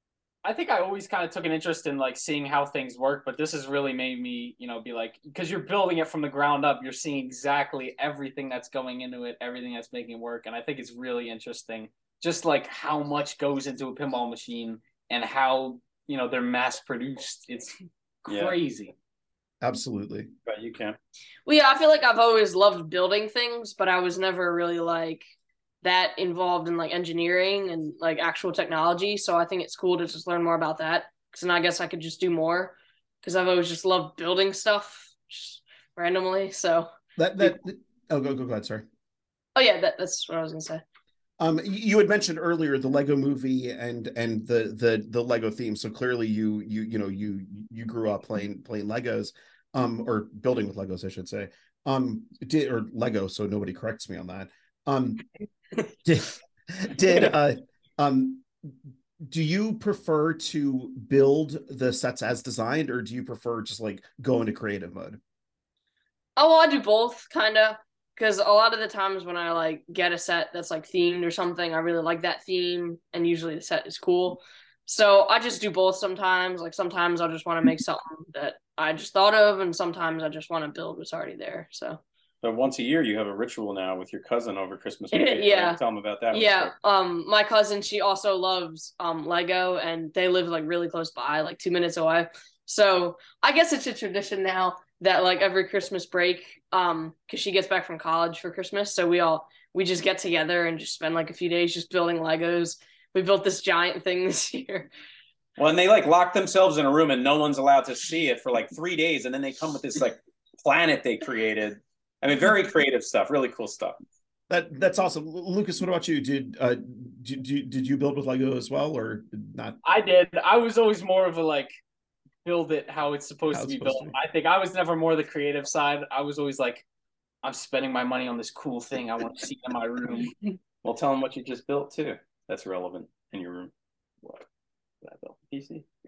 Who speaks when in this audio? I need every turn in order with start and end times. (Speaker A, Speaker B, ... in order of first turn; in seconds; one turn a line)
Speaker A: 0.4-18.9
Speaker B: 18.3-18.6
Speaker C: 19.6-20.3
Speaker B: 20.5-21.0
Speaker D: 21.5-25.3
Speaker D: 25.8-36.9
Speaker C: 37.2-38.9
Speaker D: 39.5-40.8
Speaker C: 41.4-55.2
Speaker C: 56.0-65.2
Speaker D: 66.4-82.0
Speaker B: 82.4-86.7
Speaker D: 85.1-85.8
Speaker D: 86.3-104.9
Speaker B: 105.6-114.0
Speaker C: 114.5-119.8
Speaker A: 119.8-121.7
Speaker A: 122.4-126.8
Speaker C: 123.5-124.2
Speaker A: 127.4-130.4
Speaker B: 130.8-133.7
Speaker B: 135.0-135.8